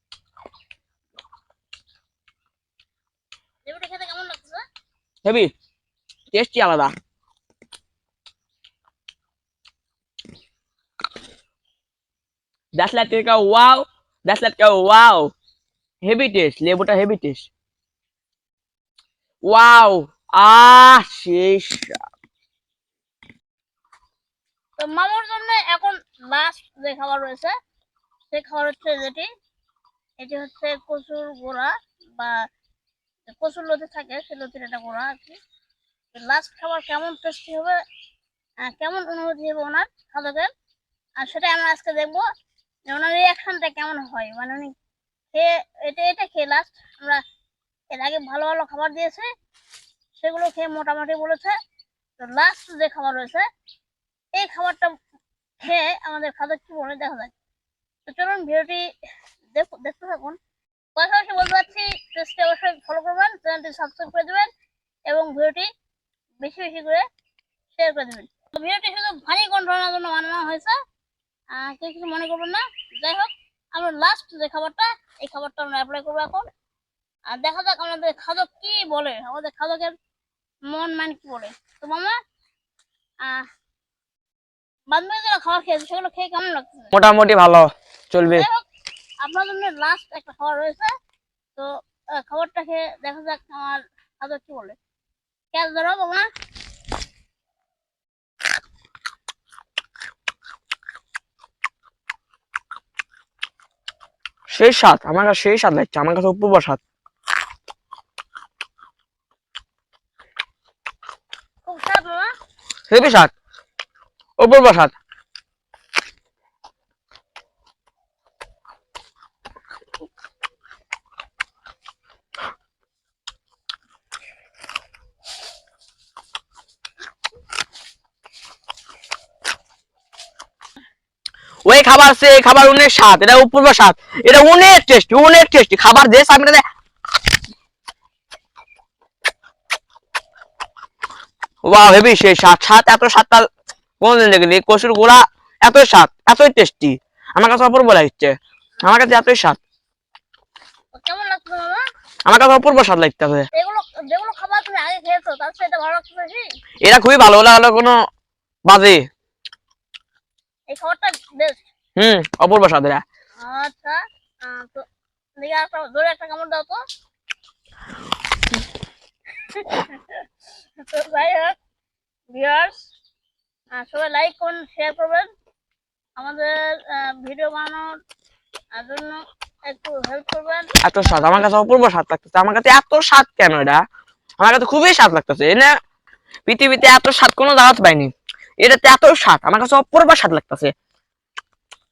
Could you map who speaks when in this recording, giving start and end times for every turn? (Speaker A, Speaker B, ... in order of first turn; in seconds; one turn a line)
Speaker A: 3.7-4.6
Speaker B: 5.2-5.5
Speaker B: 6.3-6.9
Speaker B: 12.8-15.3
Speaker B: 16.0-17.5
Speaker B: 19.4-22.0
Speaker A: 24.8-27.5
Speaker A: 28.3-29.3
Speaker A: 30.2-32.5
Speaker A: 33.3-35.4
Speaker A: 36.1-37.8
Speaker A: 38.6-40.5
Speaker A: 41.2-42.3
Speaker A: 42.9-44.7
Speaker A: 45.3-47.2
Speaker A: 47.9-49.3
Speaker A: 50.2-51.5
Speaker A: 52.2-53.5
Speaker A: 54.3-54.9
Speaker A: 55.6-57.3
Speaker A: 58.1-58.9
Speaker A: 59.5-60.4
Speaker A: 61.0-64.5
Speaker A: 65.1-65.7
Speaker A: 66.4-67.0
Speaker A: 67.7-70.8
Speaker A: 71.5-76.5
Speaker A: 77.3-80.0
Speaker A: 80.7-82.2
Speaker A: 83.2-83.5
Speaker A: 84.9-86.9
Speaker B: 86.9-88.5
Speaker A: 88.3-88.7
Speaker A: 89.2-90.9
Speaker A: 91.6-94.8
Speaker A: 95.5-96.3
Speaker B: 104.5-106.8
Speaker A: 111.7-112.3
Speaker B: 112.9-113.3
Speaker B: 114.4-114.9
Speaker B: 131.7-136.6
Speaker B: 141.6-143.5
Speaker B: 144.0-149.6
Speaker A: 150.9-151.8
Speaker B: 152.3-153.5
Speaker A: 153.5-156.4
Speaker B: 156.8-158.0
Speaker B: 158.7-159.1
Speaker A: 160.7-161.7
Speaker B: 162.0-163.0
Speaker A: 163.4-164.9
Speaker A: 165.4-166.8
Speaker A: 169.4-171.6
Speaker A: 172.3-172.9
Speaker A: 173.7-175.3
Speaker A: 176.2-177.9
Speaker A: 178.8-181.4
Speaker B: 180.8-183.8
Speaker B: 184.4-185.8
Speaker B: 186.5-190.7